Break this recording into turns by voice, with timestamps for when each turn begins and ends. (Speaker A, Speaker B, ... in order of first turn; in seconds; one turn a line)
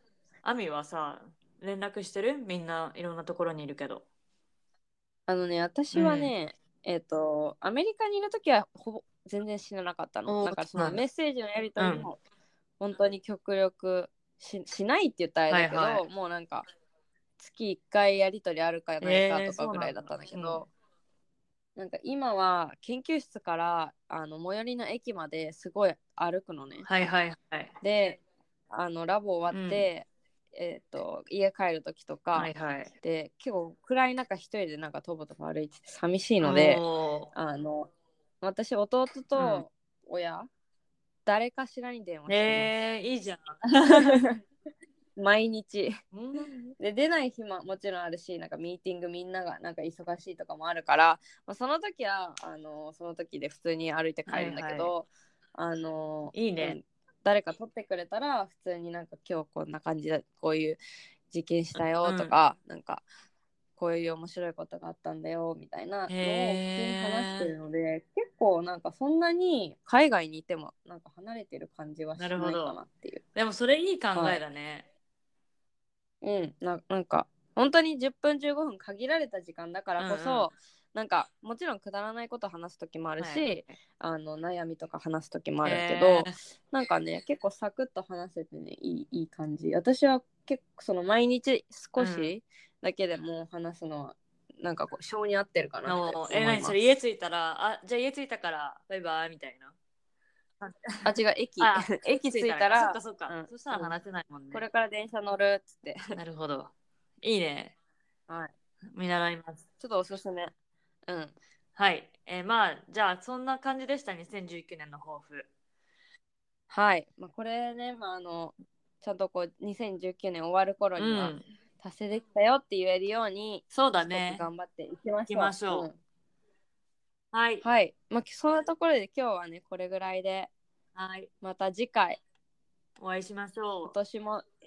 Speaker A: 0.4-4.0
Speaker B: 5.3-12.2
Speaker A: 5.9-6.3
Speaker A: 10.3-11.0
Speaker A: 11.8-12.1
Speaker B: 12.8-16.7
Speaker A: 15.5-16.0
Speaker B: 17.4-20.7
Speaker A: 19.0-20.7
Speaker B: 21.8-26.9
Speaker A: 26.8-27.7
Speaker B: 27.8-36.8
Speaker A: 29.5-29.9
Speaker A: 32.3-32.9
Speaker A: 36.4-37.3
Speaker B: 37.3-37.9
Speaker B: 38.4-40.5
Speaker A: 39.3-39.6
Speaker B: 41.2-42.7
Speaker A: 42.3-44.2
Speaker B: 43.9-44.4
Speaker B: 45.1-45.9
Speaker A: 46.1-46.7
Speaker B: 46.8-60.8
Speaker A: 54.3-54.9
Speaker A: 56.3-56.8
Speaker B: 61.3-63.0
Speaker A: 61.8-62.3
Speaker B: 63.8-73.2
Speaker A: 66.1-67.5
Speaker A: 72.2-72.8
Speaker A: 73.3-74.8
Speaker B: 74.1-74.4
Speaker B: 76.2-96.7
Speaker A: 80.0-80.5
Speaker A: 83.2-83.7
Speaker A: 85.6-86.3
Speaker A: 92.0-92.3
Speaker A: 95.8-99.7
Speaker A: 100.6-104.6
Speaker B: 101.0-103.9
Speaker B: 104.5-106.0
Speaker A: 106.1-107.7
Speaker A: 108.9-109.6
Speaker B: 109.8-110.5
Speaker B: 111.0-111.3
Speaker A: 111.8-115.5
Speaker B: 116.7-126.0
Speaker A: 121.0-121.5
Speaker A: 123.7-124.5
Speaker A: 125.3-125.9
Speaker A: 127.3-127.6
Speaker B: 127.6-130.5
Speaker A: 130.9-131.3
Speaker B: 131.4-132.2
Speaker A: 133.0-133.9
Speaker B: 133.8-134.4